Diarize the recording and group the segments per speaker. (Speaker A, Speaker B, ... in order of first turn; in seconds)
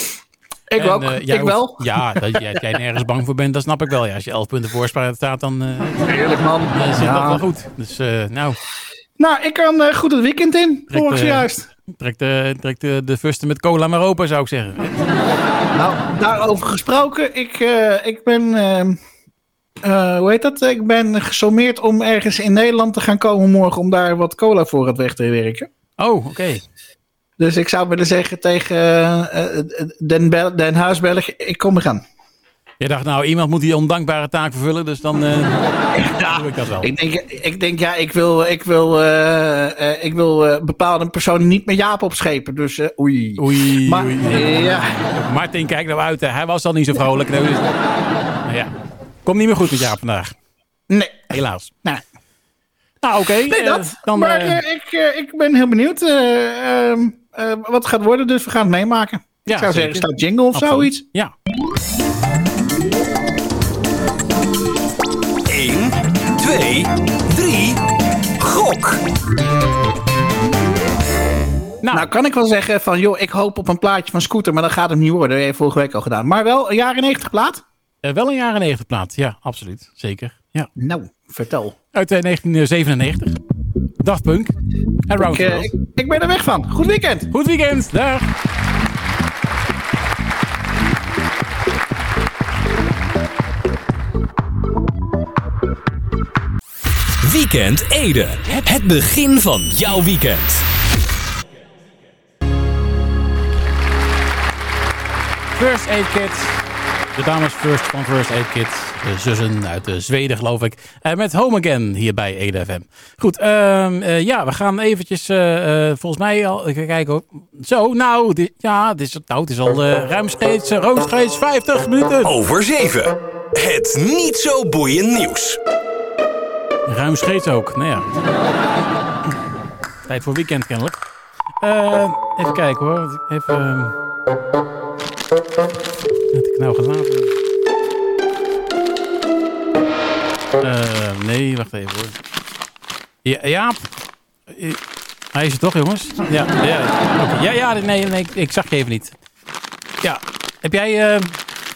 Speaker A: 0.7-2.5, 6.0-7.4, 9.2-11.7, 15.7-19.0, 19.8-25.7, 27.4-32.0, 35.9-45.0, 50.9-51.3, 53.5-61.0, 71.9-77.6, 80.8-81.8, 85.3-87.3
Speaker B: 0.8-6.1, 6.7-8.6, 10.9-15.0, 26.0-26.6, 32.8-35.6, 36.2-36.9, 43.4-47.7, 48.5-48.7, 49.2-50.4, 51.3-51.7, 53.0-54.6, 59.5-61.3, 71.8-72.1, 78.0-80.7, 81.9-83.4, 84.0-84.5, 85.1-85.7, 87.3-88.3, 105.5-122.3, 126.9-128.1, 130.1-131.0, 131.6-133.9, 136.3-137.3, 140.6-142.2, 143.2-143.9, 144.5-144.8, 145.3-149.2, 150.0-151.4
Speaker C: 65.5-67.8, 68.4-69.0, 97.2-100.7, 122.2-125.6